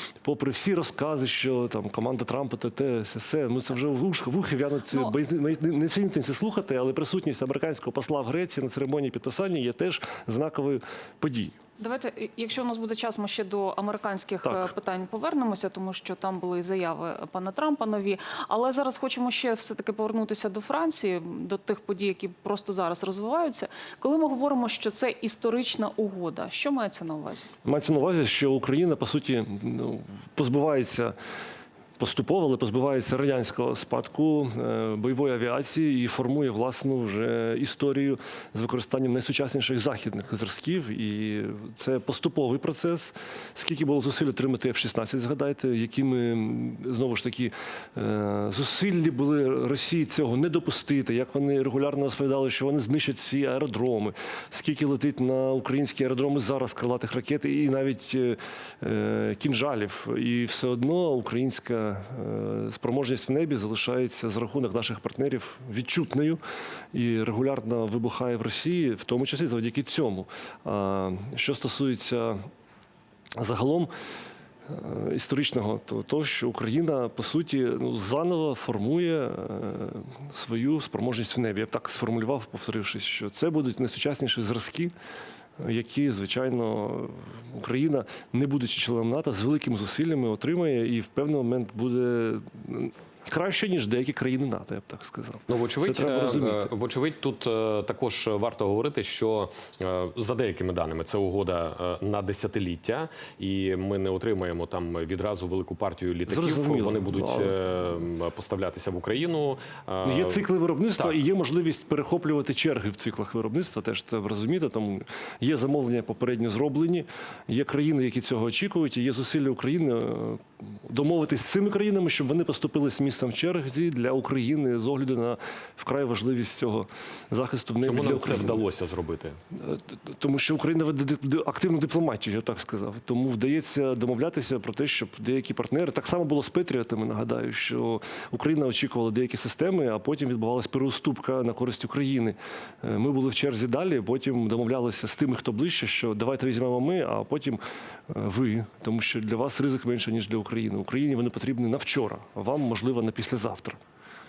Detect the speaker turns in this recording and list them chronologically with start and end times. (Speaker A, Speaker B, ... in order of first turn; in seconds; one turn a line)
Speaker A: 0.2-11.6
Speaker B: 11.8-27.5
Speaker A: 14.4-14.7
Speaker A: 27.6-31.1
Speaker A: 32.0-66.4
Speaker A: 66.9-72.5
Speaker A: 73.4-73.9
Speaker A: 74.7-84.9
Speaker A: 85.6-96.7
Speaker C: 95.5-110.4
Speaker A: 106.2-107.5
Speaker A: 110.0-128.6
Speaker C: 127.8-129.4
Speaker A: 129.5-153.8